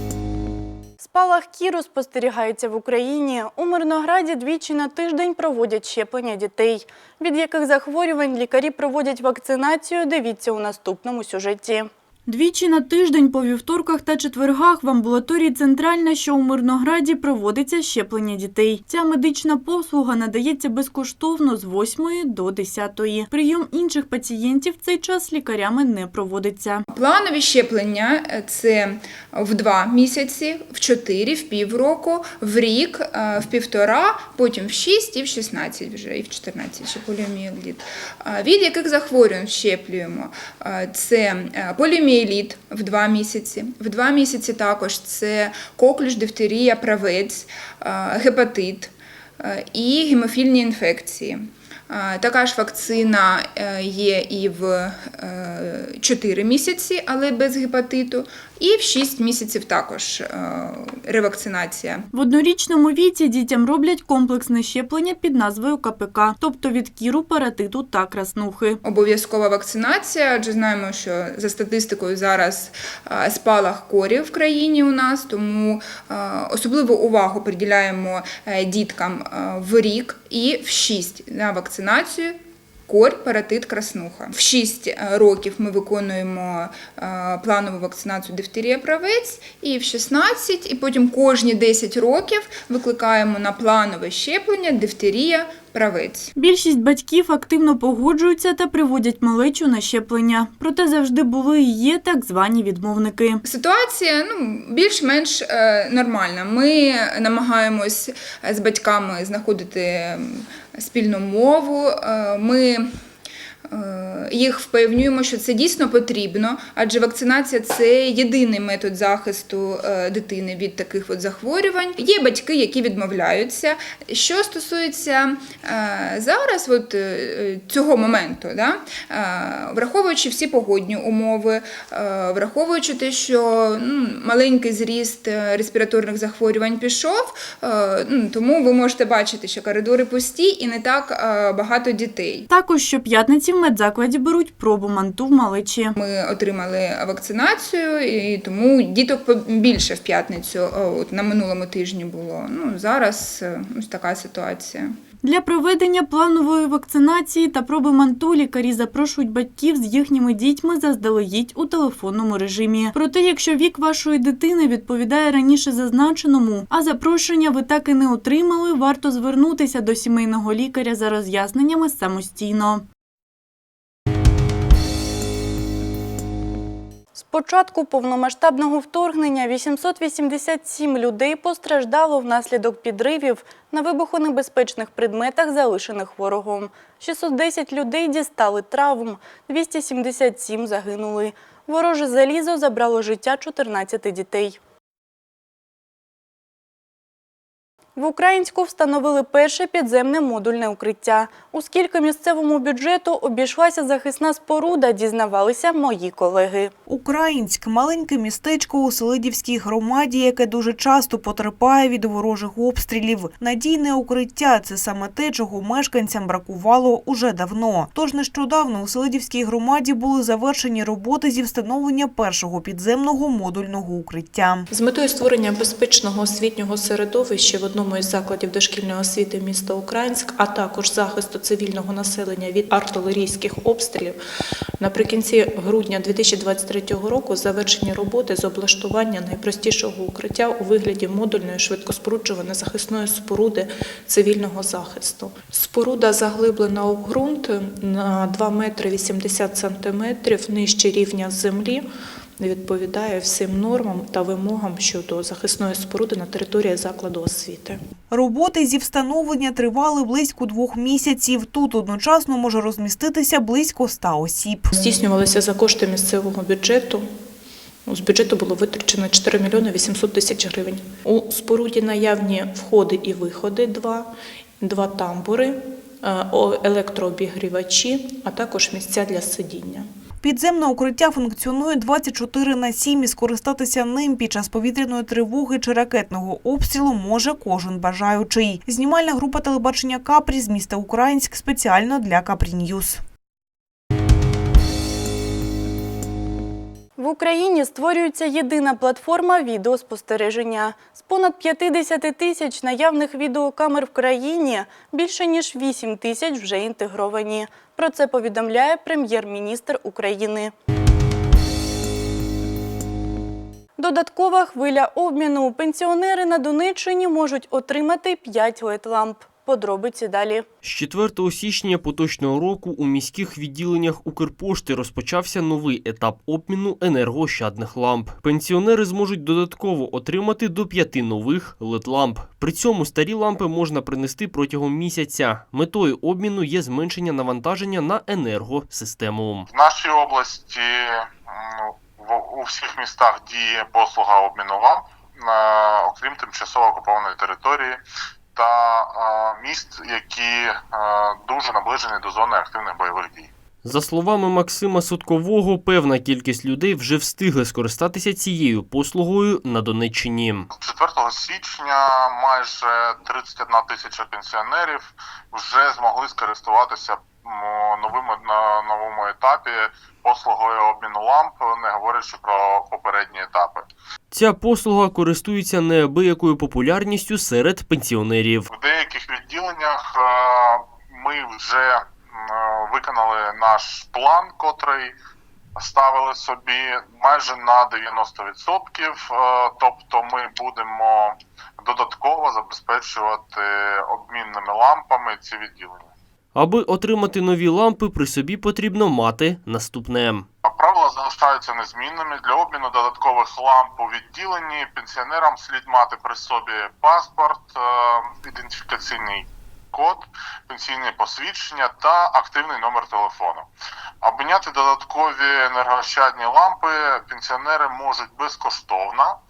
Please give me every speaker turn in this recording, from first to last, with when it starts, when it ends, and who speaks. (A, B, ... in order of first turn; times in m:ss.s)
0:01.0-0:26.8 A
0:26.9-1:02.0 B
1:02.1-1:08.8 A
1:08.8-1:22.4 B
1:22.9-1:36.3 B
1:36.4-1:43.4 A
1:43.4-1:52.8 B
1:53.7-2:22.5 B
2:22.5-2:25.9 A
2:26.0-2:34.9 B
2:35.2-2:52.8 A
2:57.1-3:14.6 A
3:18.0-3:26.7 A
3:26.9-3:44.7 C
3:44.7-3:54.2 D
3:54.8-4:11.8 D
4:12.4-4:17.8 D
4:18.1-4:24.7 C
4:24.7-4:27.0 D
4:27.9-4:34.1 D
4:34.6-4:39.8 D
4:40.2-4:53.0 C
4:57.0-5:10.5 A
5:13.8-5:20.4 A
5:20.6-5:39.5 E
5:39.5-5:40.7 F
5:41.3-5:47.7 F
5:48.4-5:53.3 F
5:53.6-6:00.5 E
6:00.5-6:13.6 F
6:14.1-6:18.5 E
6:18.5-6:21.8 F
6:22.4-6:24.9 F
6:25.6-6:31.1 F
6:31.6-6:35.8 F
6:36.3-6:40.2 E
6:40.5-6:53.4 F
6:54.0-6:59.1 F